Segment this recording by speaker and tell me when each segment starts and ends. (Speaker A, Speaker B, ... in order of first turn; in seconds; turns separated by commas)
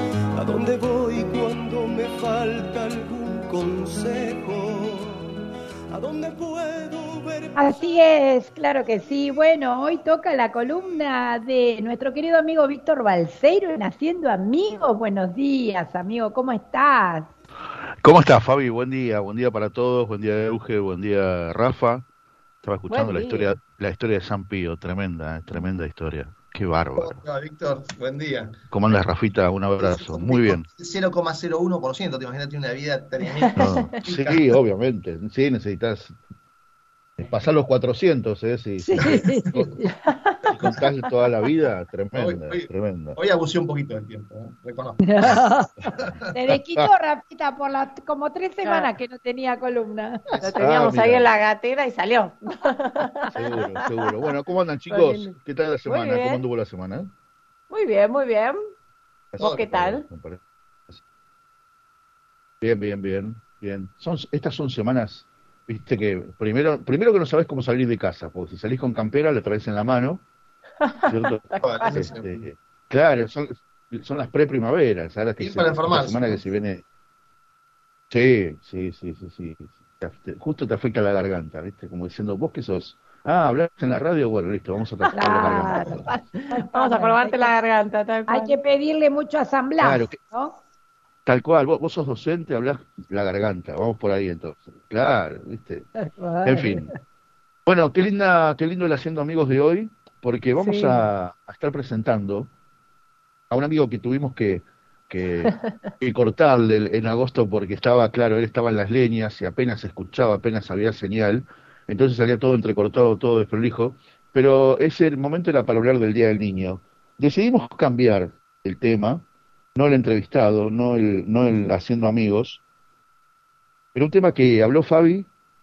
Speaker A: 0.3-5.3, Speaker A: 5.9-7.9, Speaker B: 7.6-17.3, Speaker C: 18.0-22.0, Speaker C: 22.6-27.2, Speaker D: 22.9-23.5, Speaker E: 27.0-28.6, Speaker C: 28.7-30.6, Speaker E: 29.8-34.5, Speaker D: 33.3-34.0, Speaker C: 33.6-36.1, Speaker C: 37.2-39.7, Speaker B: 38.8-40.0, Speaker E: 39.0-39.3, Speaker C: 40.5-43.2, Speaker E: 40.6-40.8, Speaker E: 42.1-45.3, Speaker B: 45.0-50.2, Speaker D: 48.6-48.9, Speaker E: 50.4-50.7, Speaker D: 50.4-54.2, Speaker C: 50.5-51.3, Speaker C: 53.3-57.1, Speaker D: 54.9-56.4, Speaker D: 57.7-58.6, Speaker C: 59.3-61.0, Speaker D: 59.4-60.0, Speaker C: 62.6-70.2, Speaker D: 70.8-72.1, Speaker C: 71.1-76.8, Speaker E: 71.6-72.3, Speaker E: 75.4-76.4, Speaker C: 78.1-86.0, Speaker B: 85.1-87.5, Speaker D: 85.9-88.5, Speaker B: 88.3-90.6, Speaker C: 89.8-90.2, Speaker C: 91.2-95.9, Speaker B: 96.0-96.9, Speaker C: 96.4-96.9, Speaker C: 97.7-102.5, Speaker D: 100.6-101.0, Speaker C: 103.5-119.2, Speaker C: 119.7-122.6, Speaker C: 123.9-125.3